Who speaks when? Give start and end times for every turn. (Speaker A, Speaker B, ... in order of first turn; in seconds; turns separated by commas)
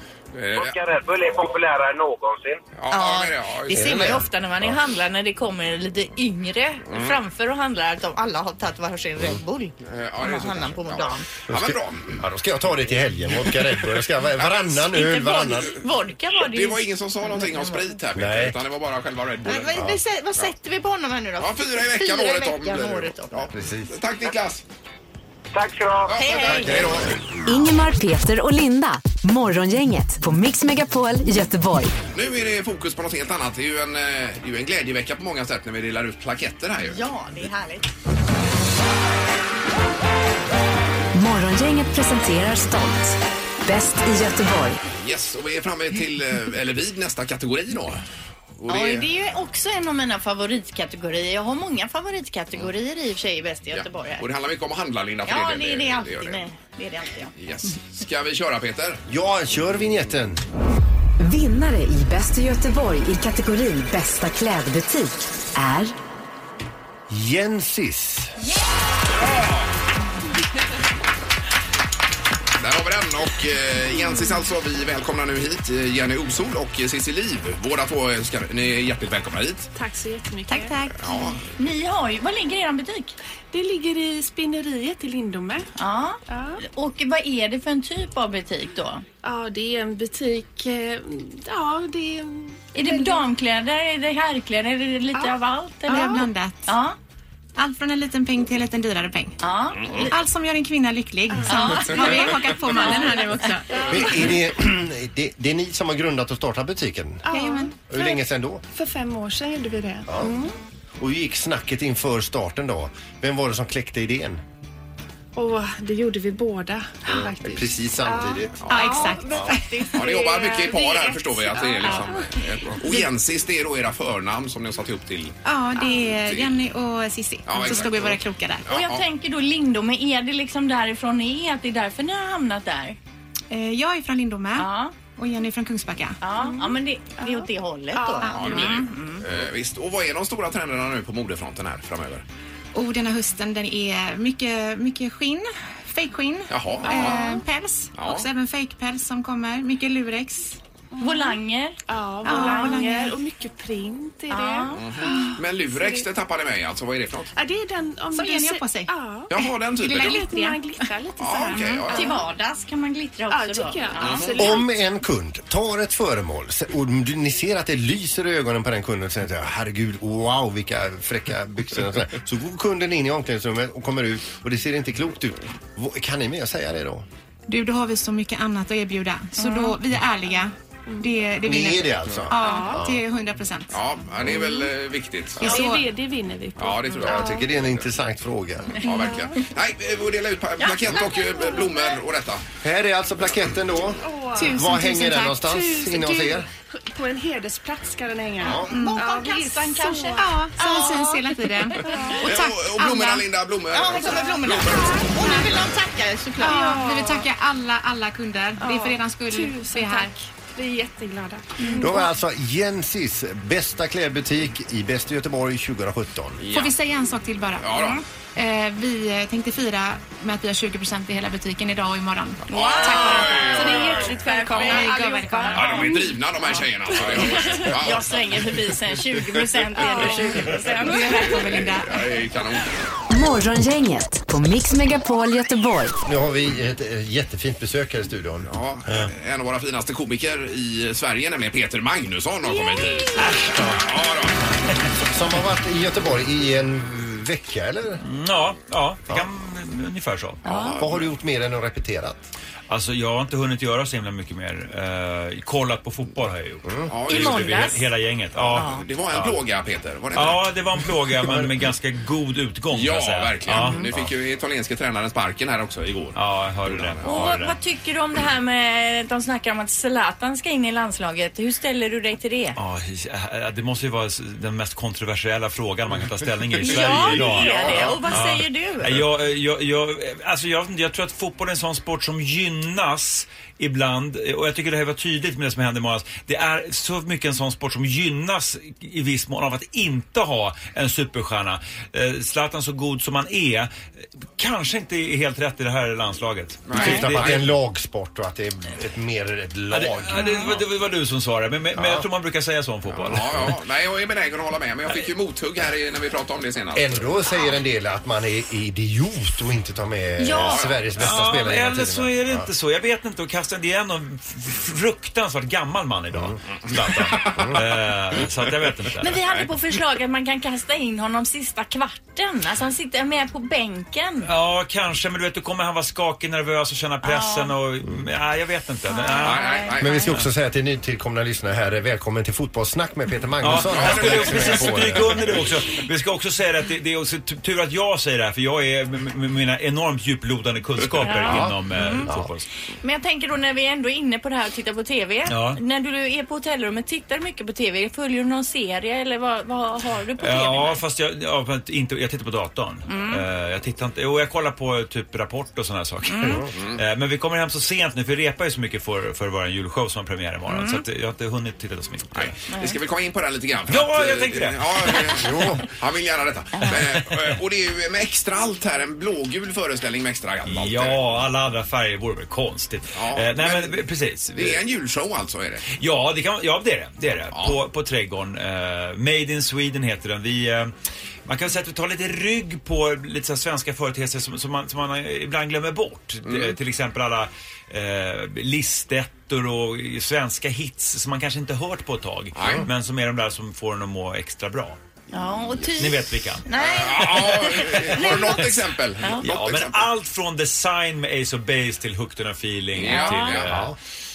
Speaker A: 0.3-0.8, Speaker B: 0.5-2.6, Speaker A: 2.7-4.2, Speaker C: 2.9-11.3, Speaker D: 3.7-4.3, Speaker A: 6.9-7.2, Speaker A: 9.8-12.2, Speaker D: 11.5-15.7, Speaker A: 13.5-13.8, Speaker C: 14.7-17.9, Speaker A: 16.3-20.5, Speaker D: 18.1-18.6, Speaker C: 19.4-23.5, Speaker A: 21.4-24.6, Speaker D: 23.5-23.9, Speaker B: 25.5-26.2, Speaker A: 26.1-27.2, Speaker C: 26.2-26.8, Speaker D: 26.5-27.2, Speaker E: 27.4-31.9, Speaker A: 32.1-37.0, Speaker C: 36.8-37.9, Speaker E: 41.1-44.8, Speaker A: 44.9-48.0, Speaker A: 48.6-49.1, Speaker C: 48.7-54.2, Speaker A: 53.7-56.4, Speaker C: 55.3-57.3, Speaker A: 57.4-59.0, Speaker D: 59.1-60.4, Speaker E: 61.2-65.9, Speaker D: 67.1-68.3, Speaker A: 69.2-69.7, Speaker A: 72.6-79.7, Speaker F: 79.7-80.8, Speaker G: 80.5-81.1, Speaker A: 81.0-81.4, Speaker C: 81.5-83.1, Speaker F: 83.5-85.7, Speaker C: 85.8-89.0, Speaker F: 86.3-86.6, Speaker F: 89.2-93.2, Speaker C: 92.7-97.0, Speaker G: 95.9-96.7, Speaker F: 95.9-96.3, Speaker G: 97.6-99.3, Speaker C: 99.4-100.1, Speaker G: 100.1-103.9, Speaker F: 101.3-104.3, Speaker C: 101.4-102.2, Speaker C: 102.8-103.3, Speaker D: 103.9-107.2, Speaker F: 107.2-110.5, Speaker G: 107.3-107.7, Speaker D: 107.9-108.6, Speaker D: 110.1-110.4, Speaker D: 111.0-114.4, Speaker F: 115.3-122.8, Speaker D: 117.1-118.6, Speaker A: 118.6-118.9, Speaker G: 118.7-119.6, Speaker C: 118.8-120.6, Speaker A: 119.9-125.3, Speaker G: 125.4-128.6, Speaker F: 125.8-126.1, Speaker A: 126.1-126.5, Speaker A: 127.5-129.0, Speaker C: 128.7-133.0, Speaker G: 133.5-136.2, Speaker C: 134.6-134.9, Speaker C: 136.2-139.2, Speaker F: 136.3-138.7, Speaker G: 138.2-138.5, Speaker A: 138.3-142.2, Speaker G: 142.7-150.6, Speaker A: 146.5-147.3, Speaker F: 146.9-147.4, Speaker A: 147.9-148.3, Speaker F: 150.9-156.1, Speaker C: 151.0-152.8, Speaker G: 152.2-153.2, Speaker C: 154.3-154.9, Speaker A: 154.7-157.3, Speaker F: 157.3-162.2, Speaker G: 158.1-158.9, Speaker A: 159.3-160.2, Speaker G: 159.8-160.9, Speaker A: 161.2-162.2, Speaker C: 161.9-164.5, Speaker F: 163.3-164.7, Speaker A: 164.0-164.4, Speaker D: 164.4-177.1, Speaker G: 177.5-183.8, Speaker F: 179.4-179.8, Speaker F: 180.9-181.2, Speaker D: 181.4-183.0, Speaker F: 182.3-182.9, Speaker A: 183.7-185.6, Speaker F: 185.4-187.5, Speaker G: 185.4-185.9, Speaker A: 186.6-187.8, Speaker D: 187.0-188.8, Speaker A: 188.7-192.4, Speaker F: 188.8-189.4, Speaker F: 190.8-191.9, Speaker D: 192.6-196.5, Speaker F: 194.0-194.8, Speaker G: 194.4-195.6, Speaker F: 195.4-202.3, Speaker D: 198.4-198.7, Speaker C: 198.4-201.1, Speaker G: 198.7-199.0, Speaker G: 200.2-203.2, Speaker A: 202.2-205.1, Speaker C: 203.7-206.8, Speaker F: 204.7-205.3, Speaker G: 205.2-205.5, Speaker G: 206.4-210.1, Speaker F: 206.4-207.3, Speaker F: 208.6-212.1, Speaker G: 211.7-211.9, Speaker D: 211.8-216.4, Speaker A: 216.4-216.8, Speaker G: 216.5-225.8, Speaker A: 217.6-218.0, Speaker C: 217.7-218.0, Speaker A: 222.5-224.2, Speaker C: 222.5-225.9, Speaker F: 222.8-226.0, Speaker A: 225.5-228.2, Speaker C: 227.0-231.6, Speaker F: 229.8-231.4, Speaker G: 230.8-232.0, Speaker A: 231.3-232.7, Speaker E: 233.1-236.0, Speaker D: 236.0-239.1, Speaker A: 238.5-244.4, Speaker F: 242.5-243.3, Speaker D: 243.2-243.8, Speaker D: 245.1-248.0, Speaker H: 248.0-250.4, Speaker C: 250.4-250.8, Speaker A: 250.4-251.1, Speaker D: 250.8-252.2, Speaker H: 252.7-259.4, Speaker A: 256.9-257.7, Speaker C: 257.1-257.8, Speaker A: 258.3-260.4, Speaker C: 258.5-258.8, Speaker H: 260.1-263.9, Speaker D: 261.3-261.6, Speaker A: 262.7-267.2, Speaker C: 263.5-263.9, Speaker H: 266.1-267.6, Speaker C: 267.0-272.6, Speaker H: 272.6-293.7, Speaker C: 276.6-279.0, Speaker A: 276.6-278.0, Speaker H: 294.4-297.4, Speaker A: 296.7-297.4, Speaker D: 296.7-300.6, Speaker C: 296.8-297.0, Speaker H: 299.7-303.5, Speaker C: 300.2-300.5, Speaker D: 301.8-302.1, Speaker A: 302.9-307.1, Speaker D: 306.7-312.5, Speaker C: 310.2-310.6, Speaker A: 310.4-310.9, Speaker H: 311.0-319.2, Speaker A: 316.9-318.2, Speaker C: 319.0-324.3, Speaker H: 324.2-329.6, Speaker C: 327.0-327.6, Speaker C: 328.9-330.0, Speaker A: 329.2-330.0, Speaker D: 329.8-335.4, Speaker H: 333.4-342.4, Speaker A: 333.5-335.3, Speaker C: 341.0-342.1, Speaker D: 341.2-342.3, Speaker C: 342.8-350.8, Speaker H: 345.2-345.6, Speaker H: 350.2-362.3, Speaker C: 352.9-353.2, Speaker C: 356.1-356.4, Speaker A: 356.5-356.8, Speaker C: 360.5-360.8, Speaker A: 362.1-371.0, Speaker H: 363.7-365.3, Speaker D: 365.2-365.6, Speaker H: 366.7-367.3, Speaker H: 370.4-374.6, Speaker A: 372.9-373.8, Speaker A: 374.3-375.7, Speaker H: 375.7-380.7, Speaker A: 377.3-377.6, Speaker H: 381.3-394.8, Speaker A: 386.2-386.6, Speaker A: 392.4-392.6, Speaker C: 395.1-399.2, Speaker H: 395.7-396.5, Speaker A: 396.6-399.9, Speaker H: 397.8-398.4, Speaker H: 399.2-403.7, Speaker A: 402.8-403.5, Speaker C: 402.8-403.4, Speaker D: 403.5-403.8